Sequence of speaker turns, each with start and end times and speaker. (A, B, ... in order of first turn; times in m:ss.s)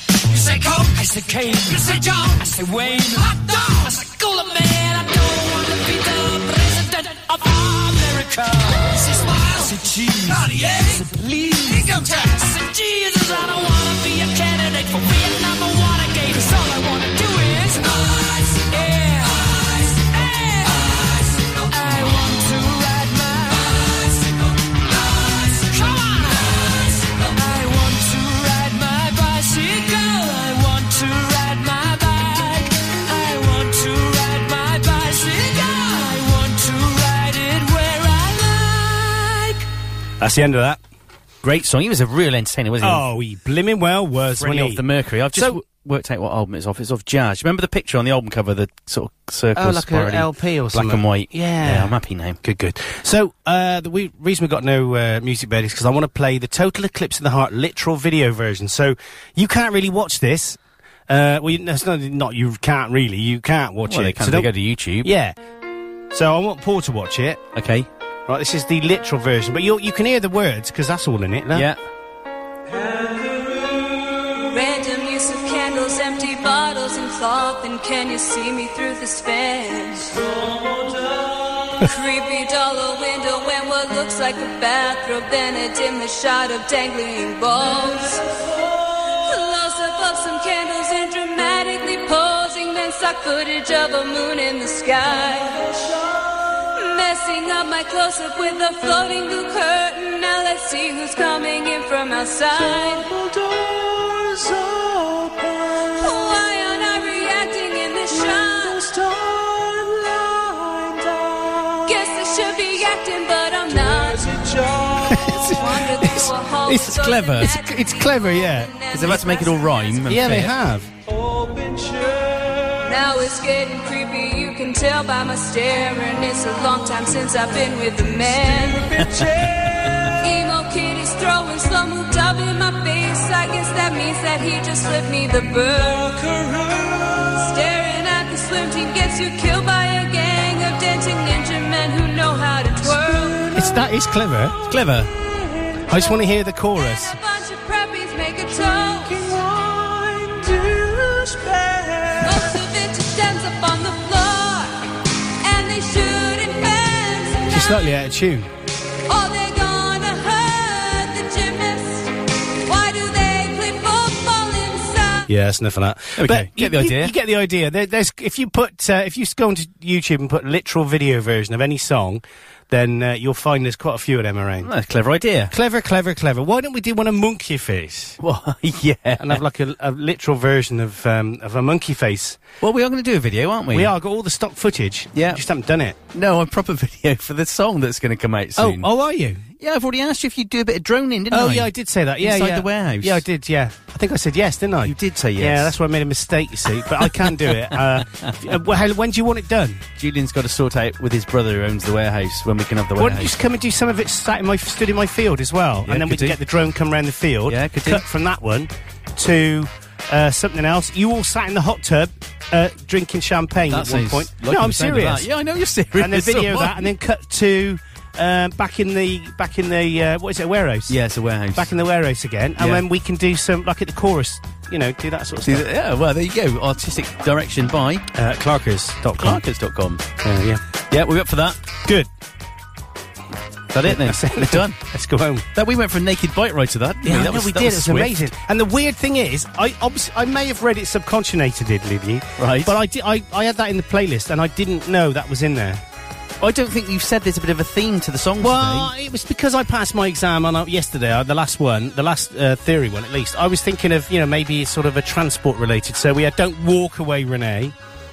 0:00.2-0:39.6 A
0:40.2-0:40.8 B
0:41.4-0:43.0 C
0:42.8-0:45.6 B
0:44.3-0:52.4 C
0:49.6-1:05.4 B
1:03.9-1:05.1 C
1:06.1-1:07.4 B
1:07.6-1:07.9 C
1:08.3-1:11.7 B
1:11.5-1:11.8 C
1:14.5-1:20.2 D
1:21.8-1:28.2 D
1:29.1-1:35.9 D
1:36.6-1:43.1 D
1:43.3-1:45.3 C
1:45.9-1:48.8 D
1:50.8-1:51.1 C
1:51.8-1:54.5 D
1:55.0-1:58.8 B
1:55.3-2:00.1 D
1:56.7-1:57.6 C
1:58.9-2:00.6 C
2:00.1-2:00.9 B
2:02.8-2:09.0 D
2:09.0-2:10.1 C
2:10.2-2:16.4 D
2:17.3-2:23.5 D
2:23.5-2:24.6 B
2:24.7-2:25.1 C
2:25.8-2:27.2 B
2:26.8-2:29.4 D
2:32.2-2:34.8 D
2:35.4-2:37.9 D
2:37.5-2:38.5 B
2:39.1-2:42.1 D
2:42.6-2:45.3 D
2:45.3-2:54.7 B
2:46.2-2:47.2 C
2:54.6-2:55.5 C
2:55.5-2:58.2 B
2:58.2-2:59.4 C
2:59.2-3:02.4 B
3:02.6-3:03.9 C
3:03.7-3:06.0 B
3:05.1-3:05.4 C
3:06.1-3:08.9 C
3:08.6-3:09.4 B
3:09.6-3:13.2 C
3:11.3-3:19.8 B
3:14.8-3:15.8 C
3:16.8-3:18.4 C
3:20.0-3:23.4 C
3:23.0-3:35.3 B
3:25.8-3:26.4 C
3:27.5-3:28.0 C
3:33.7-3:36.9 C
3:36.0-3:41.0 B
3:40.9-3:41.7 C
3:41.5-3:45.7 B
3:42.6-3:42.8 C
3:45.4-3:48.1 C
3:48.1-3:49.4 B
3:49.2-3:50.0 C
3:50.2-3:50.6 B
3:50.9-3:51.6 C
3:53.7-3:54.8 C
3:53.8-3:55.5 B
3:55.5-3:58.3 C
3:57.0-4:05.8 B
4:02.4-4:02.8 C
4:06.4-4:08.9 C
4:08.4-4:17.7 B